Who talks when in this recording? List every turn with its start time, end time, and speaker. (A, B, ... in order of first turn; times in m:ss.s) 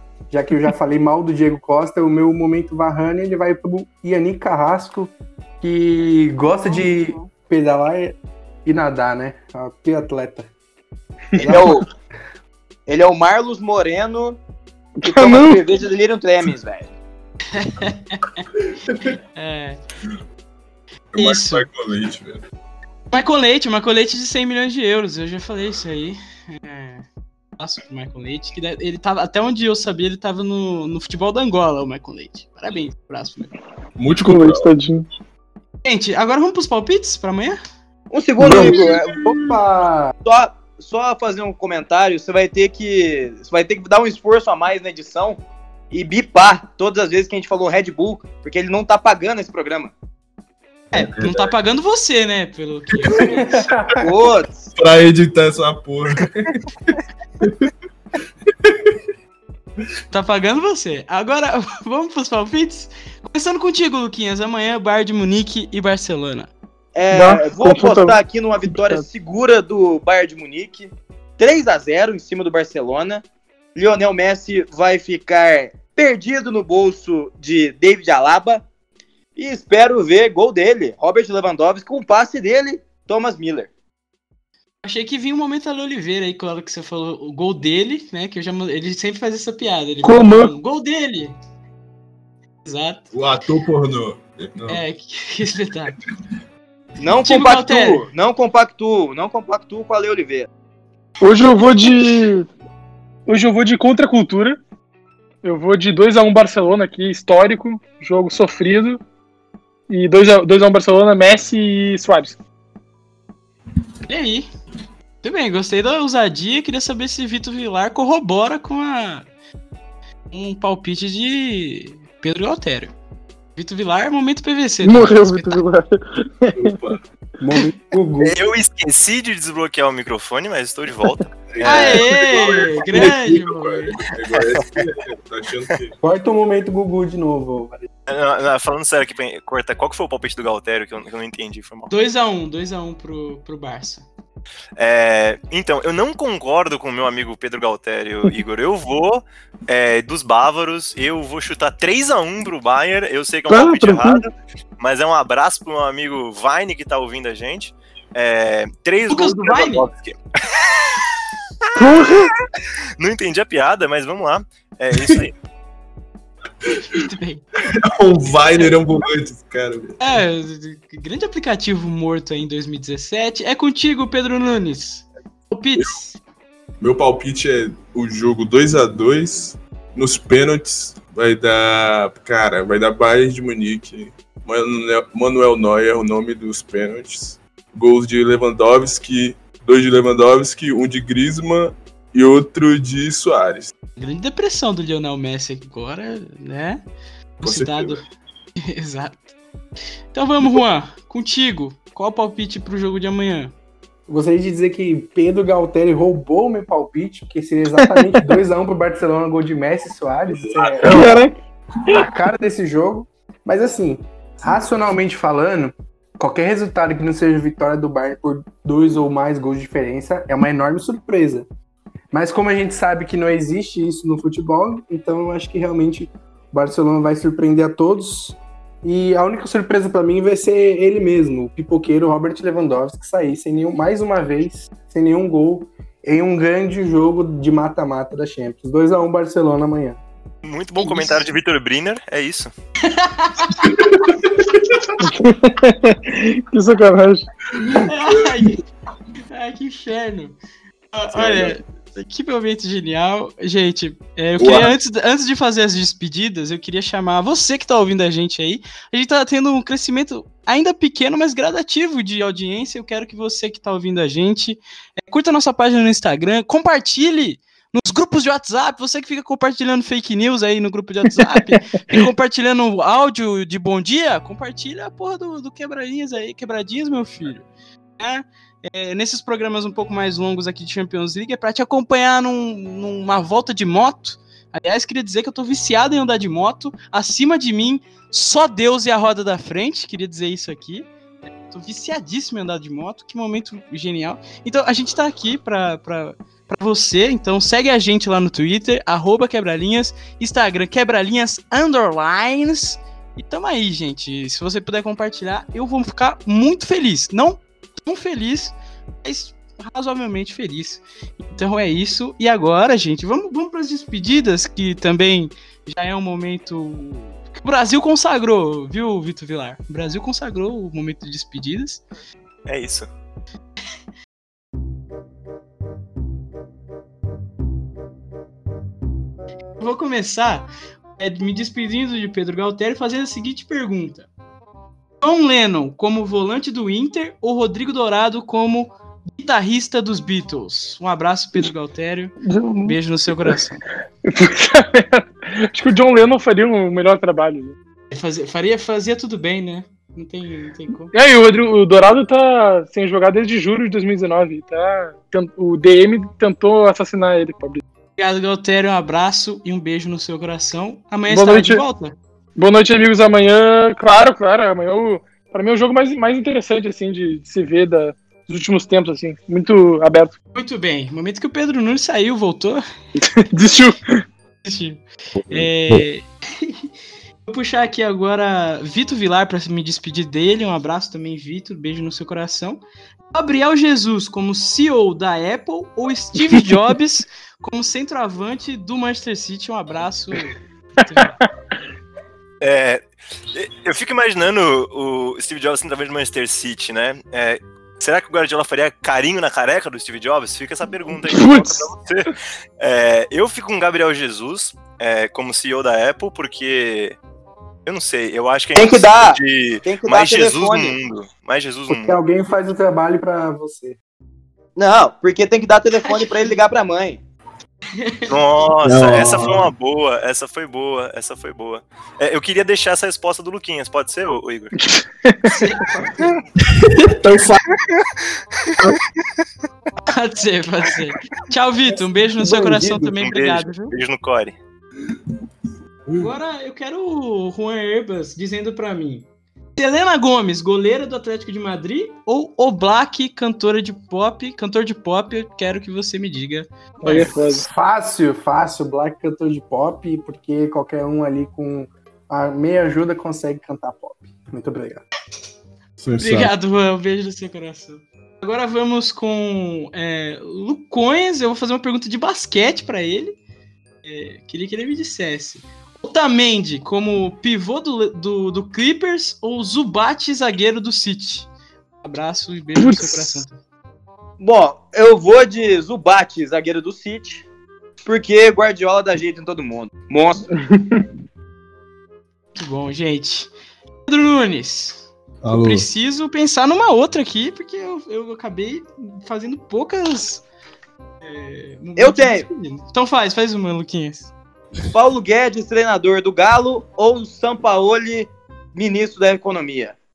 0:00.3-0:10.5 A
0:06.6-0:07.3 B
0:11.3-0:11.7 A
0:11.5-0:11.9 C
0:12.9-0:14.4 C
0:15.0-0:15.6 D
0:15.0-0:16.9 C
0:17.5-0:18.4 B
0:19.4-0:19.8 B
0:21.1-0:22.4 E
0:21.2-0:21.7 B
0:23.1-0:27.0 B
0:27.6-0:33.5 B
0:34.0-0:34.7 E
0:34.1-0:35.1 D
0:35.8-0:37.6 B
0:38.1-0:39.2 C
0:38.4-0:40.1 A
0:38.6-0:39.0 E
0:40.2-0:49.9 C
0:50.9-0:53.6 B
0:50.9-0:51.5 E
0:53.1-0:54.0 A
0:54.0-0:54.7 C
0:54.8-0:57.7 E
0:58.5-0:59.0 E
1:00.1-1:06.5 B
1:07.0-1:13.2 C
1:07.1-1:09.0 D
1:13.8-1:18.6 C
1:19.4-1:23.7 C
1:24.8-1:31.4 B
1:30.0-1:30.5 D
1:32.6-1:33.1 B
1:33.1-1:34.8 E
1:34.7-1:36.0 B
1:37.0-1:40.5 C
1:37.2-1:38.0 B
1:41.2-1:42.5 D
1:43.3-1:44.6 D
1:45.4-1:49.0 D
1:49.9-1:52.4 D
1:54.1-1:54.5 B
1:55.2-1:59.3 B
2:00.3-2:02.9 B
2:03.6-2:05.6 B
2:04.8-2:06.8 D
2:06.6-2:07.0 E
2:07.4-2:08.4 A
2:08.2-2:12.1 F
2:11.5-2:16.0 E
2:11.6-2:14.0 B
2:16.0-2:17.9 A
2:18.1-2:21.9 F
2:21.9-2:24.0 B
2:24.8-2:41.1 F
2:33.5-2:34.2 D
2:39.1-2:39.9 B
2:41.8-2:42.3 F
2:41.8-2:42.3 D
2:43.0-2:45.3 F
2:45.0-2:45.3 E
2:46.7-2:47.0 E
2:46.9-2:47.4 B
2:47.7-2:50.1 E
2:50.0-2:56.2 B
2:56.8-3:13.7 E
3:14.0-3:16.8 B
3:17.4-3:18.0 B
3:17.4-3:18.0 E
3:18.6-3:19.3 B
3:20.1-3:23.5 B
3:24.1-3:31.2 A
3:27.8-3:28.3 D
3:30.3-3:31.2 E
3:30.8-3:31.3 D
3:31.9-3:41.5 A
3:42.1-4:00.0 A
4:00.4-4:02.5 F
4:00.8-4:01.2 B
4:02.8-4:03.8 B
4:03.6-4:04.8 E
4:05.0-4:07.3 D
4:07.6-4:08.6 B
4:07.7-4:08.6 E
4:09.3-4:10.4 B
4:10.9-4:37.5 B
4:11.1-4:11.6 E
4:14.4-4:14.7 E
4:31.5-4:32.0 D
4:38.0-4:50.9 B
4:51.5-5:21.8 B
5:22.5-5:22.9 F
5:29.6-5:34.1 B
5:35.0-5:43.6 B
5:42.2-5:43.4 D
5:44.0-5:47.6 D
5:47.9-5:50.9 B
5:50.9-5:57.6 D
5:58.0-6:01.9 B
6:01.1-6:01.6 D
6:02.4-6:10.1 D
6:10.4-6:12.6 B
6:13.0-6:14.0 D
6:14.4-6:16.6 B
6:15.3-6:15.8 E
6:17.3-6:22.6 B
6:23.1-6:31.2 B
6:31.0-6:31.3 D
6:32.4-6:47.0 F
6:41.0-6:41.7 D
6:47.7-6:52.0 F
6:48.6-6:50.8 C
6:51.7-6:53.8 A
6:54.6-6:57.0 C
6:55.9-6:56.4 B
6:57.8-6:58.1 B
6:58.1-7:04.6 F
6:58.6-6:59.5 E
7:04.6-7:05.4 D
7:05.2-7:06.2 B
7:06.4-7:07.5 E
7:09.9-7:13.7 B
7:13.0-7:14.4 F
7:16.0-7:27.1 B
7:26.8-7:27.5 D
7:27.3-7:34.8 A
7:35.8-7:36.3 E
7:36.0-7:43.2 B
7:43.8-7:51.3 B
7:51.8-7:53.4 B
7:52.6-7:53.2 D
7:54.2-7:57.2 C
7:57.8-8:00.3 C
8:00.3-8:00.8 D
8:02.4-8:03.3 B
8:03.9-8:10.2 B
8:05.2-8:05.7 E
8:11.0-8:14.1 B
8:11.8-8:12.3 C
8:14.7-8:19.8 C